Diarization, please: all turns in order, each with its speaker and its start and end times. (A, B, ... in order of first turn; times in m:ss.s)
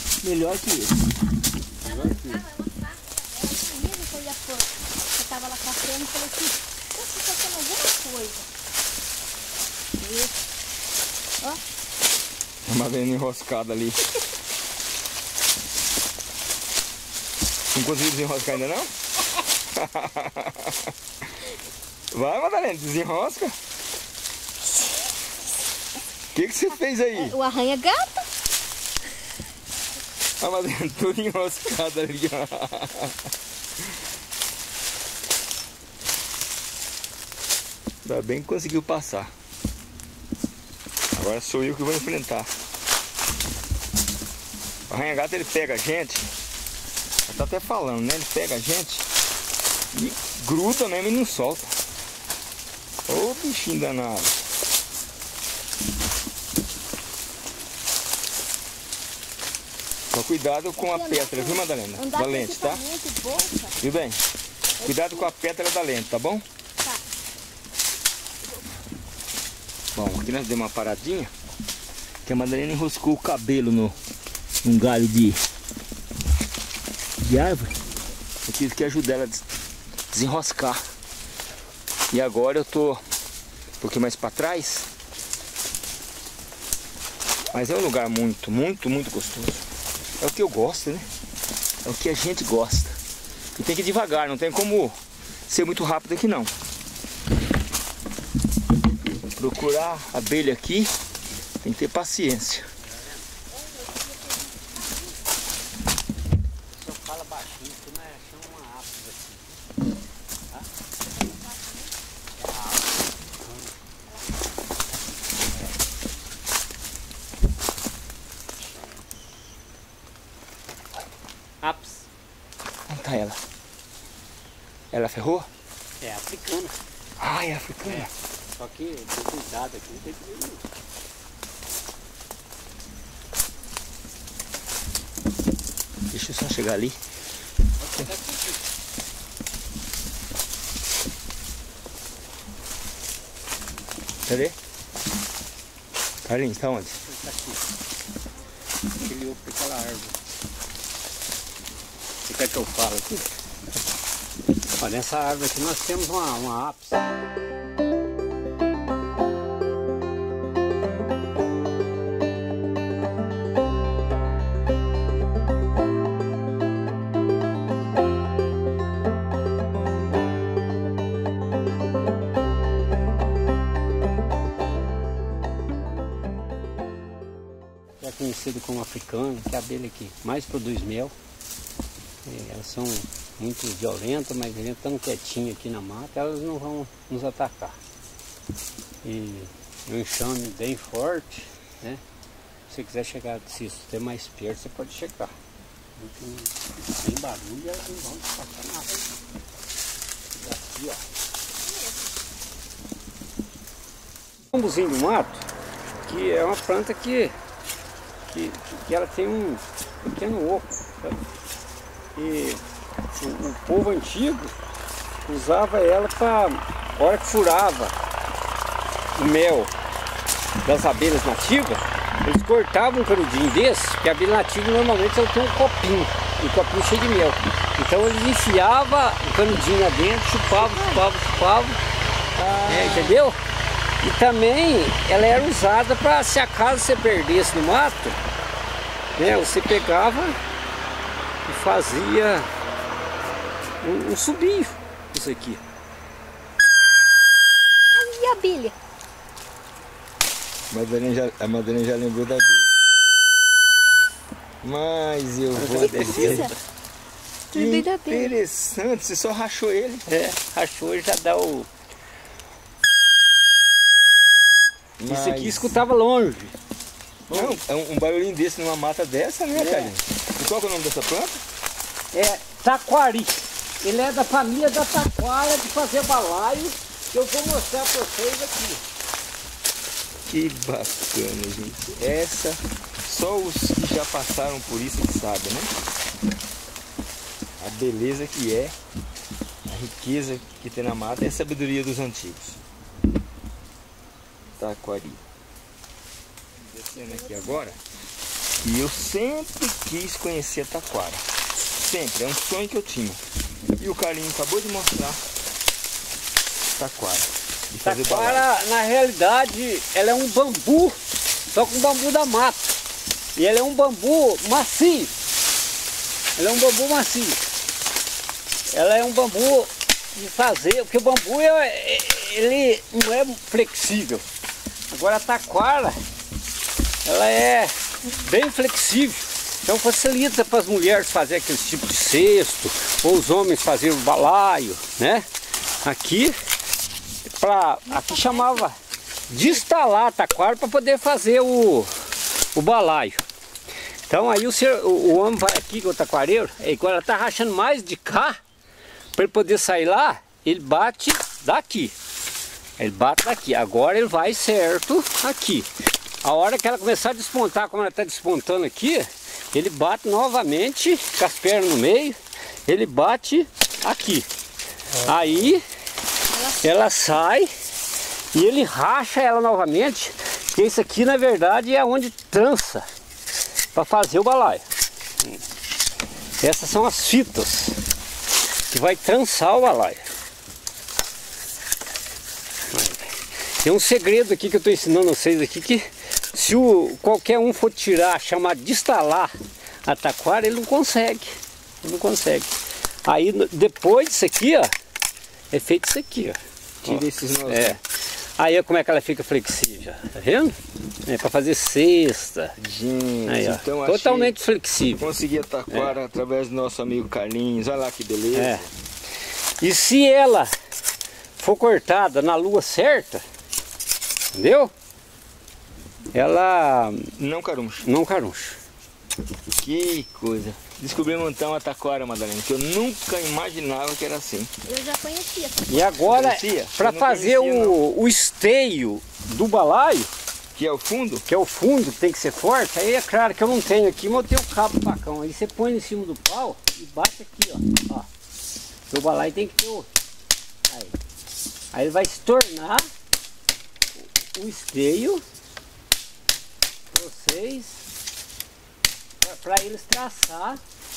0:00.2-0:01.2 A
0:01.8-0:08.5 B
0:01.8-0:02.4 C
0:10.0-0:10.4 B
0:12.7-0:14.0 A
0:17.7-0:18.9 A
0:19.6-0:20.9 A
0:22.1-0:23.6 A
0:26.3-0:27.4 A
0:27.1-0:28.2 B
0:30.4-0:33.2 A
0:38.0-0:39.3 A
0:41.1-0:42.5 A
0:44.9-0:46.3 A
0:47.3-0:49.1 A
0:49.9-0:51.8 A
0:53.1-0:54.4 A
1:00.1-1:02.8 A
1:00.8-1:03.8 B
1:03.8-1:04.2 A
1:04.8-1:05.3 B
1:04.8-1:06.4 A
1:10.0-1:11.3 A
1:12.2-1:14.0 A
1:14.6-1:15.4 A
1:17.2-1:17.8 A
1:18.4-1:19.4 A
1:20.1-1:20.8 A
1:22.1-1:23.0 A
1:23.8-1:24.9 A
1:27.5-1:29.7 A
1:30.2-1:31.1 A
1:31.8-1:33.0 A
1:33.6-1:36.5 A
1:39.3-1:40.9 A
1:41.6-1:42.7 A
1:42.9-1:43.2 C
1:43.8-1:44.9 B
1:46.7-1:49.5 C
1:51.2-1:51.9 B
1:52.4-1:53.7 C
2:01.6-2:02.1 C
2:02.9-2:03.4 A
2:04.9-2:05.5 A
2:06.0-2:06.8 C
2:07.2-2:08.1 A
2:07.8-2:10.6 C
2:16.1-2:17.0 A
2:17.8-2:18.6 C
2:24.3-2:24.6 A
2:26.2-2:27.0 A
2:27.0-2:27.6 C
2:29.0-2:30.2 C
2:32.3-2:33.3 C
2:34.7-2:37.1 C
2:58.0-3:01.1 C
3:02.2-3:07.8 C
3:09.0-3:12.0 C
3:12.7-3:15.3 C
3:16.0-3:19.1 C
3:20.4-3:21.0 C
3:24.5-3:25.5 C
3:26.0-3:27.3 C
3:28.3-3:31.2 C
3:32.2-3:32.6 C
3:33.1-3:34.5 C
3:35.3-3:38.0 C
3:39.2-3:39.7 C
3:40.6-3:51.8 C
3:50.6-3:51.0 B
3:52.4-3:53.3 A
3:52.7-3:53.4 C
3:54.0-3:58.2 C
3:59.2-4:00.4 C
4:01.5-4:02.5 C
4:03.8-4:05.6 C
4:07.9-4:08.8 B
4:10.7-4:12.7 A
4:14.6-4:16.5 A
4:15.5-4:16.6 C
4:15.8-4:16.6 B
4:17.5-4:18.4 B
4:17.5-4:20.1 A
4:20.1-4:21.7 C
4:25.0-4:25.8 A
4:25.1-4:26.6 C
4:27.3-4:27.6 C
4:27.3-4:31.4 A
4:29.5-4:29.9 C
4:32.1-4:38.8 C
4:40.3-4:45.7 A
4:47.6-4:48.8 A
4:49.7-4:52.6 A
4:54.6-4:55.2 A
4:56.7-4:57.8 A
4:56.9-4:57.7 B
4:58.6-5:03.2 A
5:03.8-5:05.2 A
5:06.8-5:08.4 A
5:07.8-5:12.8 C
5:13.4-5:15.1 C
5:16.4-5:17.4 C
5:18.7-5:24.2 C
5:24.9-5:26.0 C
5:27.0-5:35.3 C
5:35.8-5:36.4 C
5:37.3-5:38.8 C
5:37.9-5:38.6 B
5:39.3-5:41.9 C
5:42.5-5:43.3 C
5:44.1-5:48.4 C
5:49.2-5:52.0 C
5:52.8-5:55.7 C
5:56.2-6:04.3 C
6:05.0-6:05.6 C
6:05.0-6:05.4 A
6:06.3-6:06.7 B
6:06.6-6:07.5 C
6:08.3-6:12.8 C
6:13.7-6:14.6 C
6:16.4-6:17.8 C
6:18.7-6:20.1 C
6:22.7-6:29.3 C
6:29.8-6:34.7 C
6:35.5-6:37.8 C
6:36.8-6:37.8 A
6:38.4-6:42.6 C
6:42.6-6:44.4 A
6:43.3-6:45.1 C
6:45.0-6:48.7 A
6:45.7-6:46.0 C
6:48.3-6:48.6 C
6:49.6-6:50.6 C
6:51.4-6:53.2 C
6:54.3-6:54.7 C
6:56.1-6:57.1 C
6:57.2-6:57.9 A
6:57.8-6:58.6 C
6:59.6-7:04.5 A
7:04.6-7:05.9 B
7:05.7-7:10.1 C
7:06.0-7:07.8 A
7:10.6-7:11.3 A
7:11.3-7:18.1 C
7:18.9-7:19.9 C
7:21.7-7:22.9 C
7:24.3-7:25.2 C
7:26.9-7:27.8 C
7:29.2-7:30.6 C